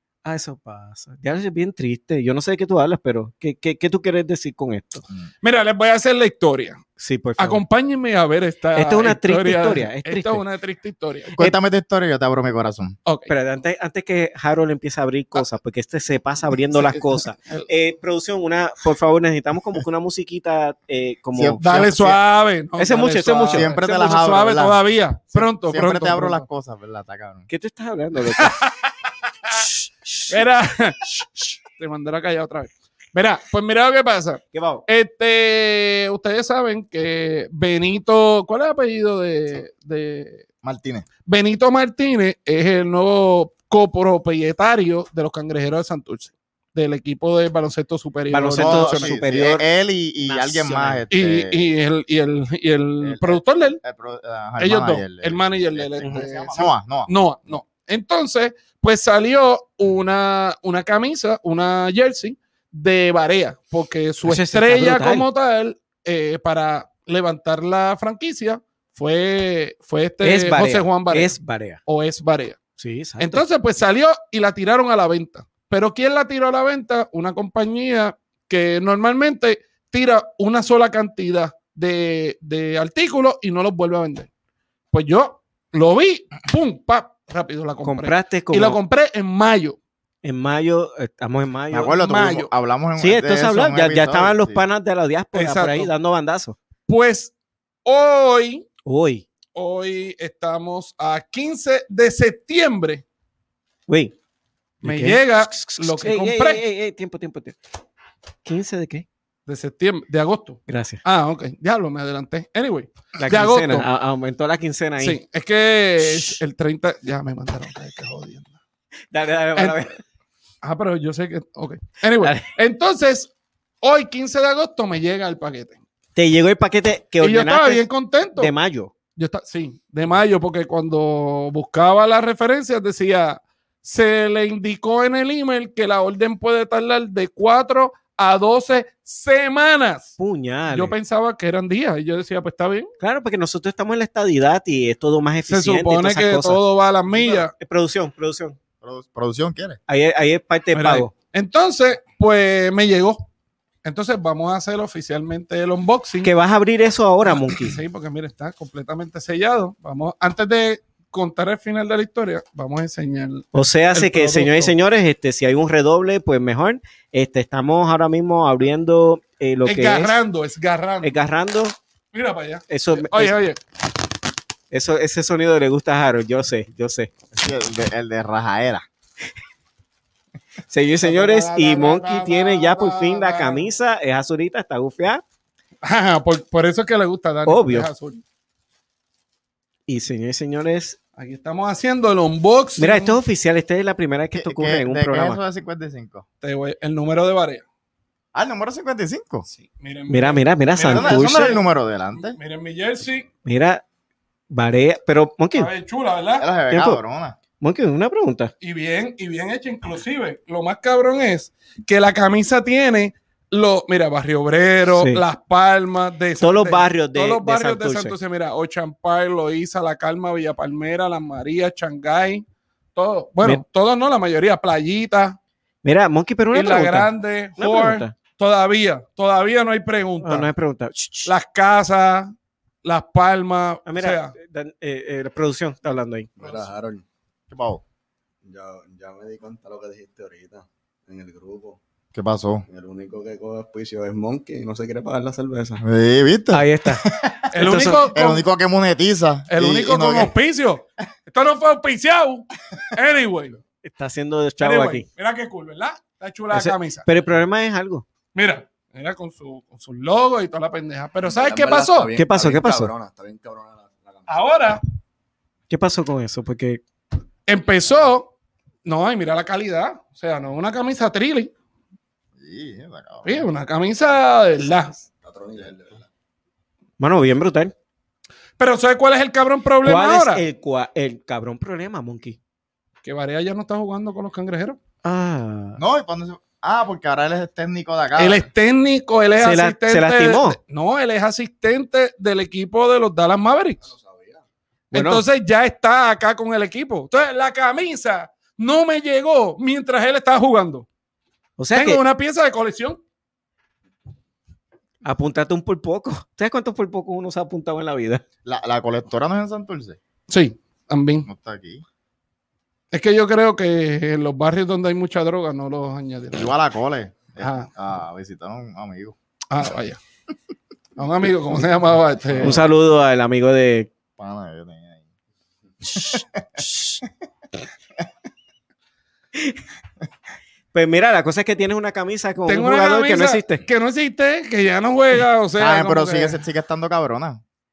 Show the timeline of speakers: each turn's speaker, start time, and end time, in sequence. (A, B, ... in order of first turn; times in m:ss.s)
0:00.2-0:05.0 A
0:05.4-0:06.8 B
0:07.0-0:07.6 A
0:07.4-0:11.4 B
0:08.8-0:10.4 A
0:11.4-0:13.0 C
0:13.0-0:13.3 B
0:13.3-0:21.6 A
0:16.7-0:17.7 B
0:21.3-0:22.2 C
0:21.6-0:26.4 B
0:22.8-0:23.7 A
0:23.5-0:24.8 C
0:25.3-0:27.5 C
0:27.5-0:28.6 A
0:28.4-0:29.6 B
0:29.6-0:30.3 A
0:30.3-0:40.4 B
0:34.5-0:34.8 A
0:40.6-0:41.0 C
0:41.2-0:49.1 B
0:48.3-0:49.6 A
0:48.6-0:51.7 C
0:50.2-0:51.0 A
0:51.1-0:53.8 B
0:53.0-0:57.1 C
0:54.6-1:12.6 B
0:56.0-0:56.3 A
1:04.2-1:05.3 A
1:10.2-1:11.8 A
1:12.8-1:13.4 A
1:13.2-1:24.3 B
1:24.9-1:29.8 B
1:27.8-1:28.8 A
1:30.2-1:32.0 A
1:31.7-1:34.6 C
1:32.0-1:32.5 B
1:33.0-1:36.6 A
1:35.3-1:35.9 B
1:36.9-1:37.3 B
1:37.8-1:38.6 B
1:38.8-1:39.2 A
1:39.5-1:43.0 B
1:43.9-1:44.1 A
1:44.8-1:46.6 B
1:44.8-1:47.6 A
1:48.4-1:49.0 A
1:49.4-1:53.8 B
1:50.7-1:51.0 A
1:53.2-1:55.2 A
1:55.0-1:58.5 B
1:59.1-2:00.0 A
2:00.6-2:03.3 B
2:02.2-2:02.4 A
2:03.8-2:05.8 B
2:06.2-2:08.9 A
2:07.2-2:08.5 B
2:09.2-2:20.2 B
2:20.2-2:20.9 A
2:20.7-2:22.9 B
2:23.0-2:26.6 A
2:25.5-2:27.5 B
2:27.1-2:28.6 A
2:28.8-2:29.8 C
2:29.9-2:31.1 A
2:30.7-2:33.2 B
2:33.8-2:36.3 B
2:36.2-2:37.8 A
2:37.2-2:44.7 B
2:43.5-2:50.2 A
2:49.6-2:51.2 B
2:51.0-2:51.8 A
2:52.1-2:53.6 B
2:52.7-2:53.3 A
2:54.7-2:57.1 A
2:57.3-2:58.8 C
3:00.7-3:05.2 A
3:01.0-3:03.7 B
3:05.8-3:08.2 B
3:07.4-3:07.9 A
3:09.9-3:11.0 A
3:11.2-3:13.2 B
3:12.8-3:15.4 A
3:14.3-3:16.2 C
3:16.4-3:17.6 B
3:18.3-3:19.4 C
3:19.5-3:21.6 B
3:20.1-3:21.6 A
3:20.9-3:22.4 C
3:22.1-3:23.3 B
3:23.4-3:23.8 A
3:24.5-3:25.7 A
3:25.5-3:26.5 B
3:26.4-3:27.4 C
3:26.7-3:27.0 A
3:27.6-3:28.5 A
3:28.6-3:42.4 B
3:34.9-3:35.2 A
3:36.4-3:38.1 A
3:42.9-3:45.4 B
3:45.8-3:48.1 A
3:46.5-3:50.5 B
3:50.2-3:51.3 A
3:51.2-3:52.3 B
3:52.8-3:54.3 B
3:53.8-3:56.3 A
3:56.4-3:57.0 D
3:57.5-3:57.8 C
3:58.4-4:01.8 D
4:02.1-4:02.6 C
4:02.7-4:05.8 D
4:05.8-4:10.3 C
4:06.5-4:08.1 A
4:07.5-4:08.4 B
4:09.5-4:13.6 B
4:13.8-4:15.0 A
4:14.6-4:17.1 B
4:16.5-4:18.0 A
4:18.3-4:22.2 B
4:21.2-4:24.5 D
4:22.2-4:22.9 A
4:24.3-4:24.8 B
4:25.7-4:26.8 A
4:27.5-4:28.3 B
4:28.8-4:31.5 B
4:32.4-4:33.4 C
4:33.2-4:35.0 B
4:35.2-4:36.1 D
4:37.0-4:37.7 A
4:38.6-4:40.4 B
4:39.8-4:42.4 A
4:43.0-4:44.8 B
4:45.0-4:45.8 A
4:45.8-4:48.5 C
4:48.2-4:53.9 B
4:49.4-4:50.6 A
4:53.8-4:54.4 D
4:54.9-4:55.2 A
4:54.9-5:00.9 B
5:01.6-5:02.0 A
5:01.7-5:03.0 B
5:05.0-5:08.2 A
5:08.4-5:10.0 C
5:10.3-5:11.3 B
5:11.3-5:11.8 C
5:12.9-5:16.5 B
5:16.3-5:19.1 C
5:17.4-5:17.7 B
5:19.5-5:20.0 B
5:21.0-5:22.6 B
5:22.2-5:22.6 C
5:22.4-5:23.9 A
5:24.2-5:25.0 C
5:25.9-5:26.6 C
5:29.3-5:29.6 A
5:30.7-5:33.6 A
5:32.5-5:36.4 B
5:35.6-5:37.4 C